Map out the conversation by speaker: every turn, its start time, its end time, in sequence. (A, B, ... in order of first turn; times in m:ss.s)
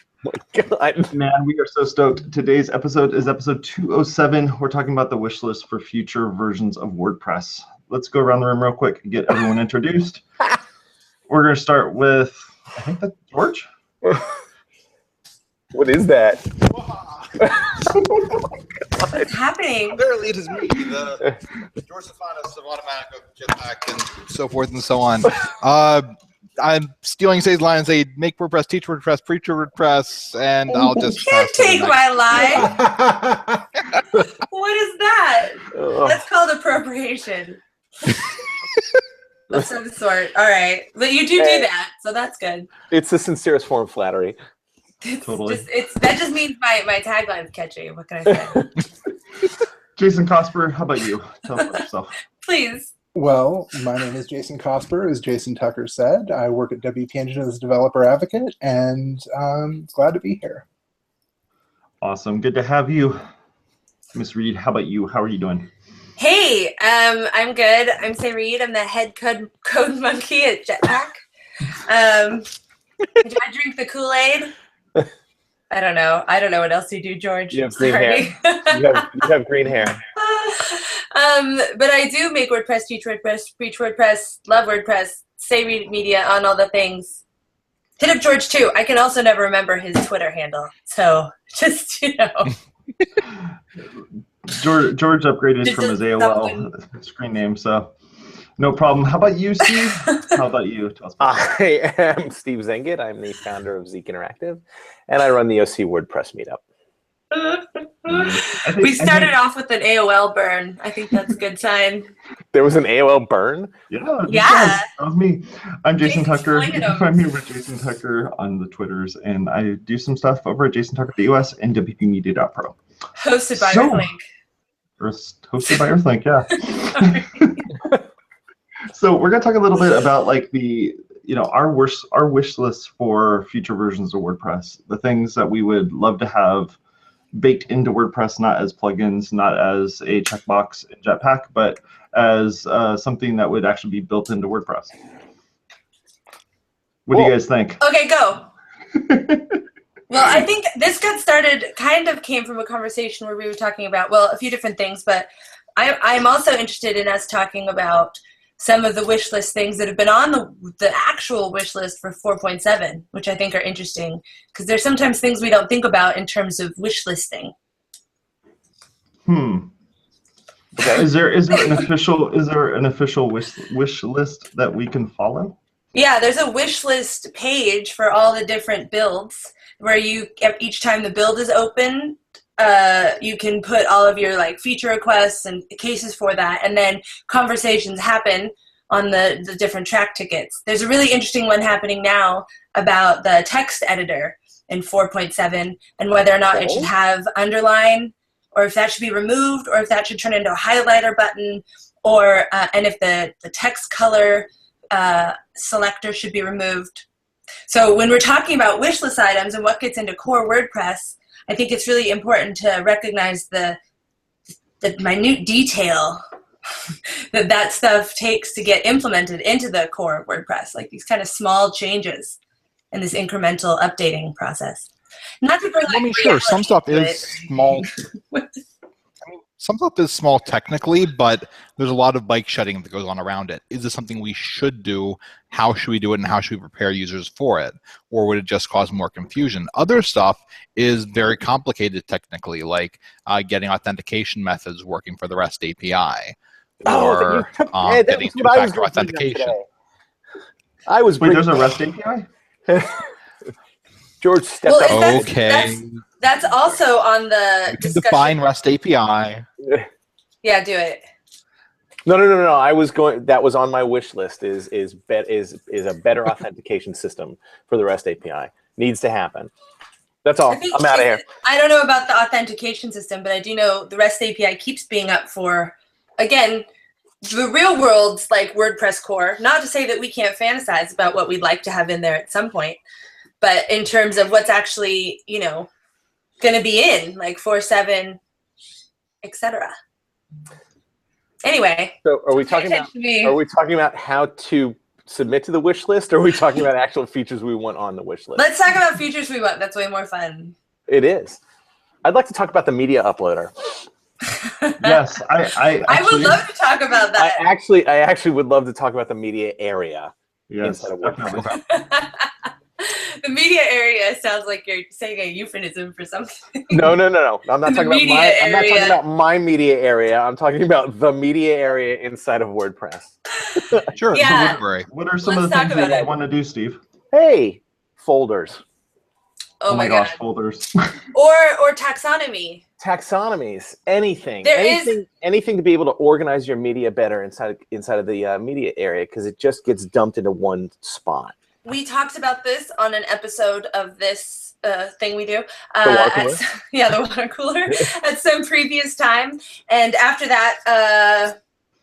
0:00.2-0:01.1 A
0:01.1-0:10.2 B
0:11.3-0:13.7 B
0:15.7-0:16.6 A
0:17.4-0:18.3 A
0:18.9-0:19.3 A
0:19.1-0:20.0 C
0:19.9-0:26.1 D
0:26.6-0:32.7 D
0:30.7-0:32.7 C
0:32.5-0:33.7 E
0:34.5-0:38.2 C
0:35.7-0:36.2 A
0:39.5-0:42.7 C
0:41.4-0:41.7 A
0:42.9-0:44.4 A
0:45.0-0:48.7 C
0:45.2-0:45.6 B
0:48.4-0:48.7 A
0:50.0-0:52.2 B
0:52.4-0:52.9 C
0:53.2-1:00.6 E
1:02.0-1:03.2 B
1:04.1-1:05.7 B
1:06.2-1:12.4 C
1:13.2-1:14.5 C
1:15.7-1:19.3 C
1:17.5-1:20.0 A
1:20.2-1:27.2 C
1:28.0-1:32.5 C
1:34.5-1:37.9 B
1:35.6-1:36.7 C
1:38.6-1:41.5 B
1:40.1-1:40.3 C
1:41.2-1:46.6 A
1:47.3-1:52.1 C
1:48.1-1:49.4 B
1:52.5-1:53.7 A
1:53.9-2:02.8 B
1:54.3-1:54.9 C
1:56.0-1:57.1 C
2:03.2-2:04.2 C
2:03.6-2:04.1 B
2:05.0-2:07.7 B
2:06.9-2:07.6 C
2:08.9-2:16.8 B
2:17.3-2:25.0 B
2:27.1-2:27.8 B
2:27.8-2:28.5 C
2:29.0-2:29.6 B
2:30.1-2:47.5 C
2:49.2-2:49.7 B
2:50.8-2:55.6 B
2:55.9-3:27.0 C
3:16.5-3:16.9 A
3:27.7-3:33.8 C
3:34.8-3:36.2 C
3:37.3-3:42.4 C
3:42.9-3:44.9 C
3:45.4-3:48.5 C
3:45.9-3:47.9 D
3:49.3-4:09.5 D
4:06.8-4:09.7 A
4:10.9-4:11.7 A
4:11.2-4:12.3 B
4:12.7-4:13.1 A
4:14.2-4:15.3 A
4:14.6-4:18.4 C
4:14.9-4:16.0 D
4:17.7-4:19.5 D
4:20.4-4:21.0 C
4:22.0-4:29.5 A
4:30.2-4:31.2 A
4:30.5-4:36.6 C
4:37.2-4:42.8 C
4:43.4-4:45.7 C
4:46.4-4:48.2 C
4:49.2-4:49.7 C
4:51.4-4:53.4 C
4:52.0-4:58.4 A
4:58.4-5:00.5 C
5:00.9-5:01.4 A
5:02.0-5:03.7 A
5:04.3-5:05.0 C
5:04.8-5:06.4 B
5:05.8-5:07.4 C
5:07.1-5:11.5 A
5:10.5-5:11.6 B
5:11.5-5:17.0 C
5:16.7-5:23.9 A
5:17.6-5:19.0 C
5:23.4-5:24.6 C
5:24.0-5:24.9 D
5:24.9-5:26.8 B
5:25.2-5:26.1 C
5:27.1-5:28.6 A
5:29.6-5:30.2 C
5:29.7-5:30.9 B
5:31.1-5:32.6 C
5:32.8-5:41.3 A
5:34.4-5:34.9 C
5:41.6-5:51.4 C
5:45.8-5:46.4 A